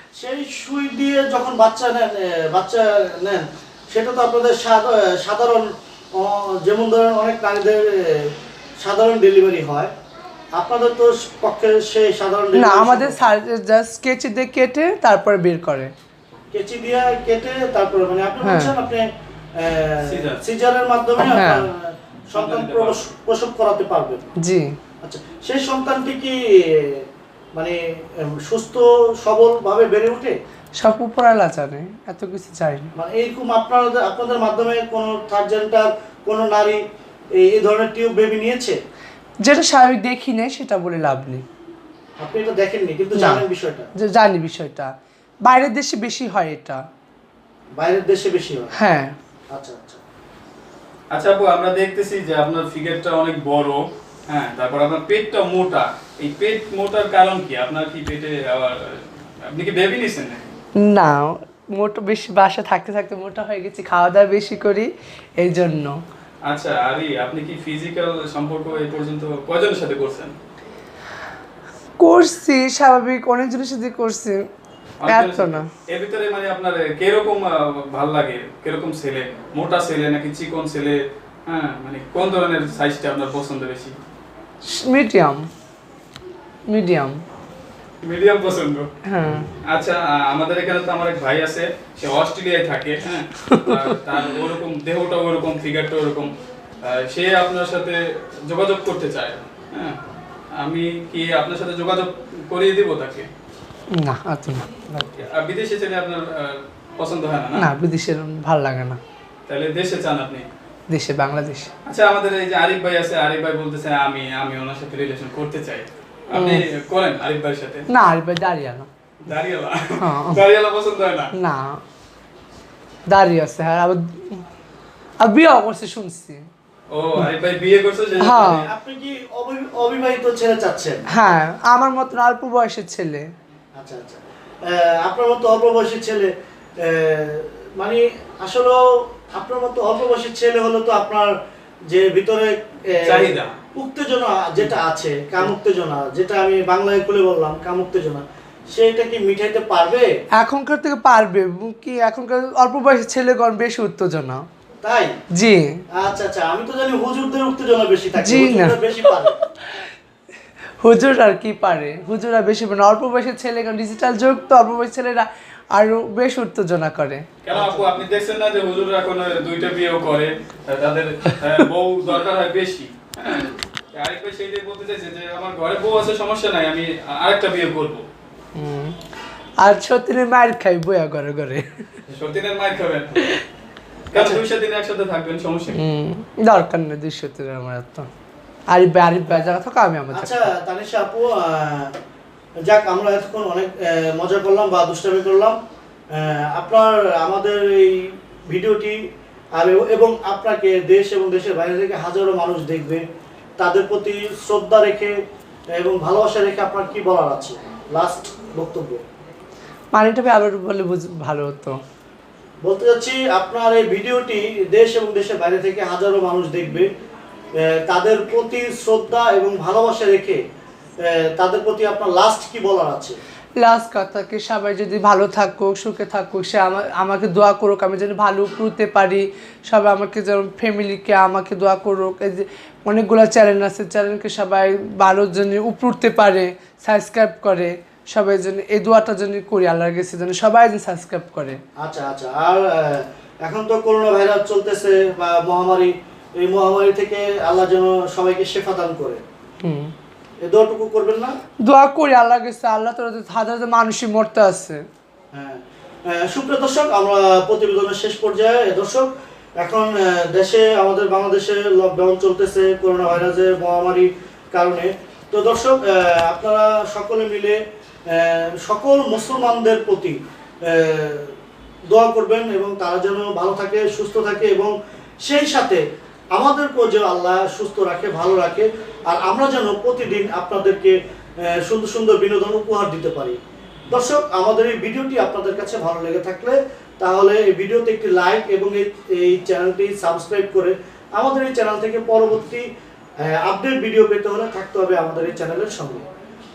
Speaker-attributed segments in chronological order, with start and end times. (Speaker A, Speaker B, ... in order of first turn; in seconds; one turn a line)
Speaker A: 0.2-9.9
Speaker A: 10.5-13.3
Speaker B: 12.6-15.9
Speaker A: 16.5-24.3
Speaker B: 18.4-18.7
Speaker C: 20.0-20.4
Speaker B: 21.2-21.6
Speaker C: 22.3-23.0
Speaker B: 24.4-24.8
Speaker A: 25.0-27.0
Speaker A: 27.6-30.4
Speaker B: 30.8-32.9
Speaker A: 33.0-36.8
Speaker A: 37.4-38.8
Speaker B: 39.5-41.4
Speaker A: 42.2-43.9
Speaker B: 43.1-43.4
Speaker B: 44.0-44.9
Speaker B: 45.5-46.8
Speaker A: 47.8-48.8
Speaker B: 48.8-49.1
Speaker A: 49.5-50.0
Speaker C: 51.1-60.5
Speaker B: 60.8-66.0
Speaker C: 66.5-70.4
Speaker B: 72.0-74.4
Speaker C: 75.0-84.0
Speaker B: 75.1-75.7
Speaker B: 84.6-85.5
Speaker B: 86.7-87.2
Speaker C: 88.0-88.9
Speaker B: 89.1-89.5
Speaker C: 89.7-96.3
Speaker B: 93.5-93.9
Speaker C: 96.8-100.0
Speaker C: 100.6-103.3
Speaker B: 104.0-105.1
Speaker C: 105.2-107.7
Speaker B: 107.6-109.0
Speaker C: 109.5-110.5
Speaker B: 110.9-111.7
Speaker C: 111.9-117.9
Speaker B: 116.3-116.6
Speaker B: 117.9-118.9
Speaker C: 119.2-121.3
Speaker B: 120.0-120.4
Speaker B: 121.4-121.8
Speaker B: 123.1-124.4
Speaker B: 125.2-126.4
Speaker C: 126.9-128.7
Speaker B: 128.2-128.7
Speaker A: 128.4-131.0
Speaker B: 131.1-133.3
Speaker A: 133.8-136.3
Speaker A: 136.8-141.3
Speaker A: 141.9-150.1
Speaker C: 143.0-143.5
Speaker B: 150.4-154.4
Speaker A: 154.8-155.2
Speaker B: 155.4-155.8
Speaker A: 155.9-159.3
Speaker B: 158.2-158.8
Speaker B: 160.8-167.3
Speaker C: 167.4-178.1
Speaker A: 167.5-167.9
Speaker B: 178.6-179.0
Speaker B: 179.6-181.8
Speaker C: 182.1-183.2
Speaker C: 184.1-185.8
Speaker A: 184.1-184.4
Speaker B: 185.7-188.1
Speaker B: 188.7-190.5
Speaker A: 190.2-191.9
Speaker A: 192.7-195.6
Speaker A: 196.1-199.0
Speaker A: 199.6-203.0
Speaker A: 203.6-205.2
Speaker A: 205.8-209.0
Speaker B: 209.9-211.8
Speaker A: 212.6-216.9
Speaker A: 217.6-220.4
Speaker A: 221.0-223.2
Speaker B: 223.6-241.6
Speaker A: 241.8-249.2
Speaker B: 249.6-249.9
Speaker A: 250.4-251.4
Speaker B: 251.7-254.8
Speaker A: 255.3-271.3
Speaker A: 271.9-275.8
Speaker A: 276.3-283.4
Speaker A: 283.9-292.6
Speaker A: 293.3-296.1